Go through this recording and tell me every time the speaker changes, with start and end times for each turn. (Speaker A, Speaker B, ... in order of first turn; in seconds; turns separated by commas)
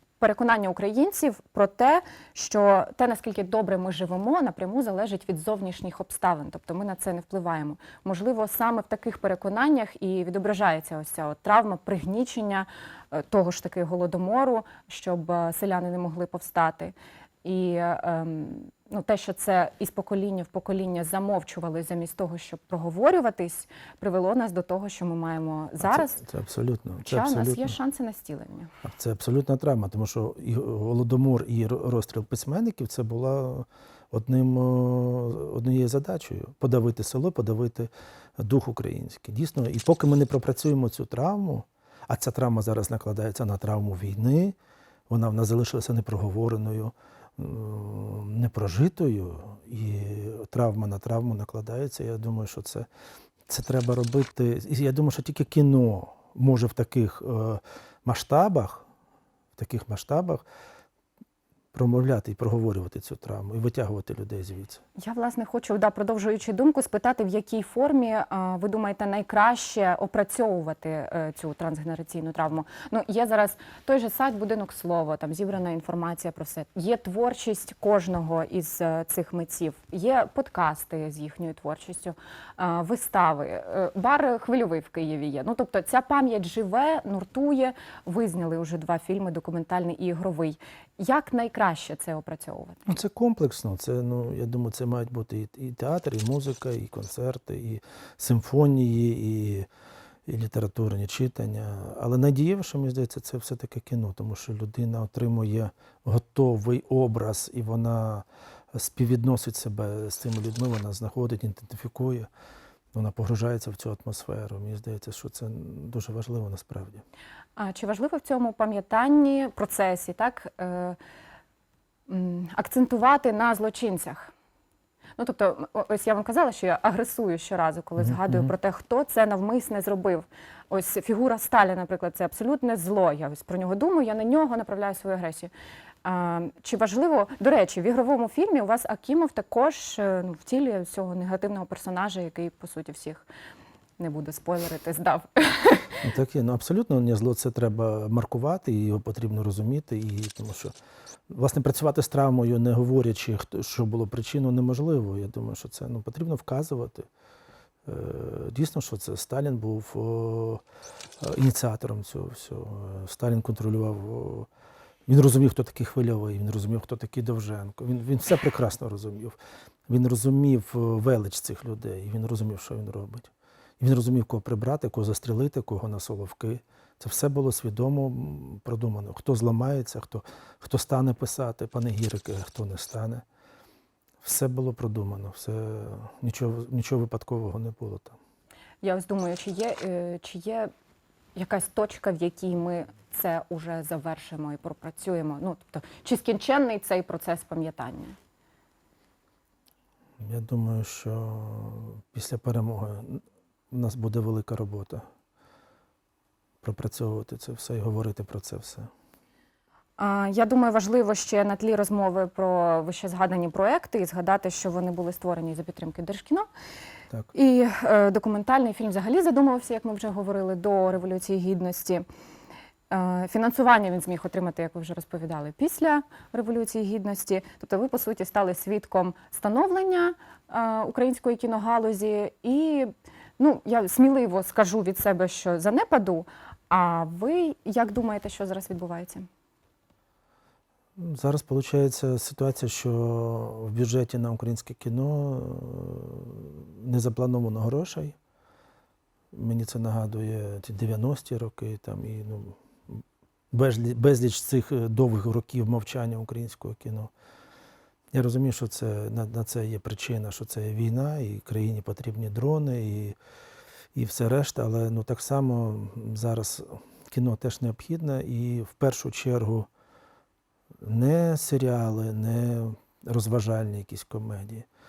Speaker A: 0.2-26.2, Speaker B: 25.8-27.8, Speaker A: 27.0-28.7, Speaker B: 28.8-44.5, Speaker B: 45.1-52.9, Speaker B: 53.5-58.9, Speaker B: 59.5-60.4, Speaker B: 61.7-64.8, Speaker A: 65.0-92.9, Speaker B: 92.9-99.7, Speaker B: 100.2-112.3, Speaker B: 112.9-117.0, Speaker A: 117.6-121.0, Speaker A: 122.1-124.3, Speaker A: 125.2-135.5, Speaker B: 128.0-128.5, Speaker A: 136.0-143.3, Speaker A: 144.0-146.1, Speaker B: 146.0-150.7, Speaker B: 151.3-157.1, Speaker B: 157.8-160.6, Speaker B: 161.2-164.5, Speaker B: 165.1-169.3, Speaker B: 169.9-183.2, Speaker B: 184.2-188.2, Speaker A: 188.8-190.7, Speaker A: 191.3-198.2, Speaker B: 200.2-205.0, Speaker B: 206.6-208.9, Speaker A: 210.0-216.5, Speaker A: 217.3-222.0, Speaker A: 222.9-239.3, Speaker B: 241.0-248.2, Speaker B: 249.3-257.1, Speaker B: 258.1-263.2, Speaker B: 263.9-269.7, Speaker B: 270.8-274.7